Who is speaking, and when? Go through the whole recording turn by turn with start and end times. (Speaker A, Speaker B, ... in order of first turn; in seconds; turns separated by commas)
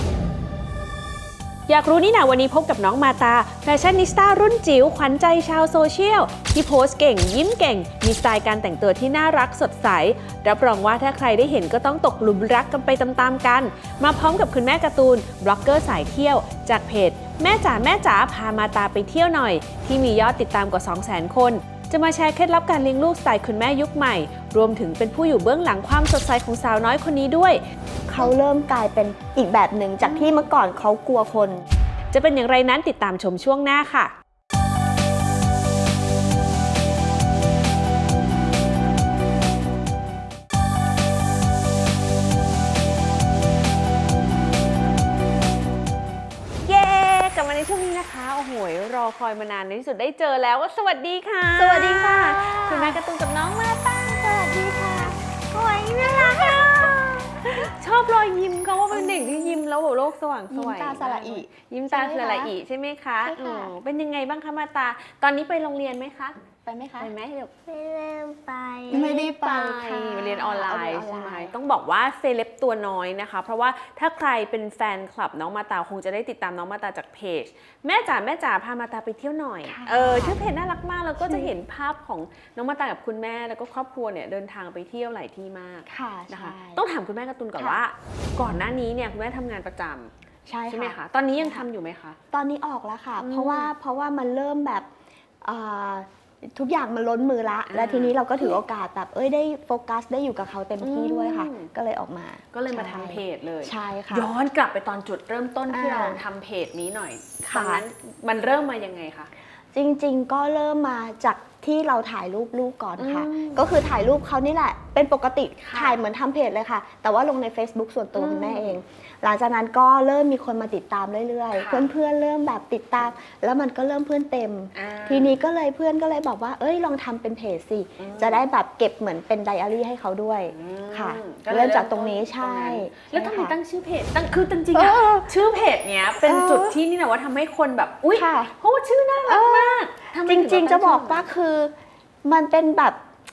Speaker A: 1.7-27.6, Speaker B: 28.1-31.6, Speaker A: 30.0-30.4, Speaker A: 32.1-34.1, Speaker A: 46.6-54.5, Speaker B: 51.6-53.0, Speaker B: 54.1-57.7, Speaker A: 55.6-66.4, Speaker B: 58.9-59.6, Speaker B: 60.5-62.5, Speaker C: 63.2-63.7, Speaker B: 66.7-67.1, Speaker A: 67.0-67.5, Speaker C: 67.7-69.2, Speaker B: 68.9-71.5, Speaker A: 68.9-90.1, Speaker B: 79.7-80.4, Speaker B: 81.2-81.5, Speaker B: 85.9-86.8, Speaker B: 87.6-87.8, Speaker B: 90.5-91.7, Speaker A: 90.7-92.2, Speaker B: 92.3-94.9, Speaker A: 93.2-93.7, Speaker B: 95.4-104.3, Speaker A: 97.7-98.5, Speaker A: 100.8-101.7, Speaker A: 102.5-109.3, Speaker B: 105.7-106.2, Speaker B: 107.4-107.8, Speaker B: 109.7-133.6, Speaker A: 113.0-113.6, Speaker A: 115.6-116.0, Speaker A: 118.2-118.8, Speaker A: 121.6-121.9, Speaker A: 124.7-125.4, Speaker A: 128.0-128.4, Speaker A: 130.5-141.3, Speaker B: 134.7-135.3, Speaker B: 136.2-136.8, Speaker B: 138.1-138.5, Speaker B: 139.3-143.0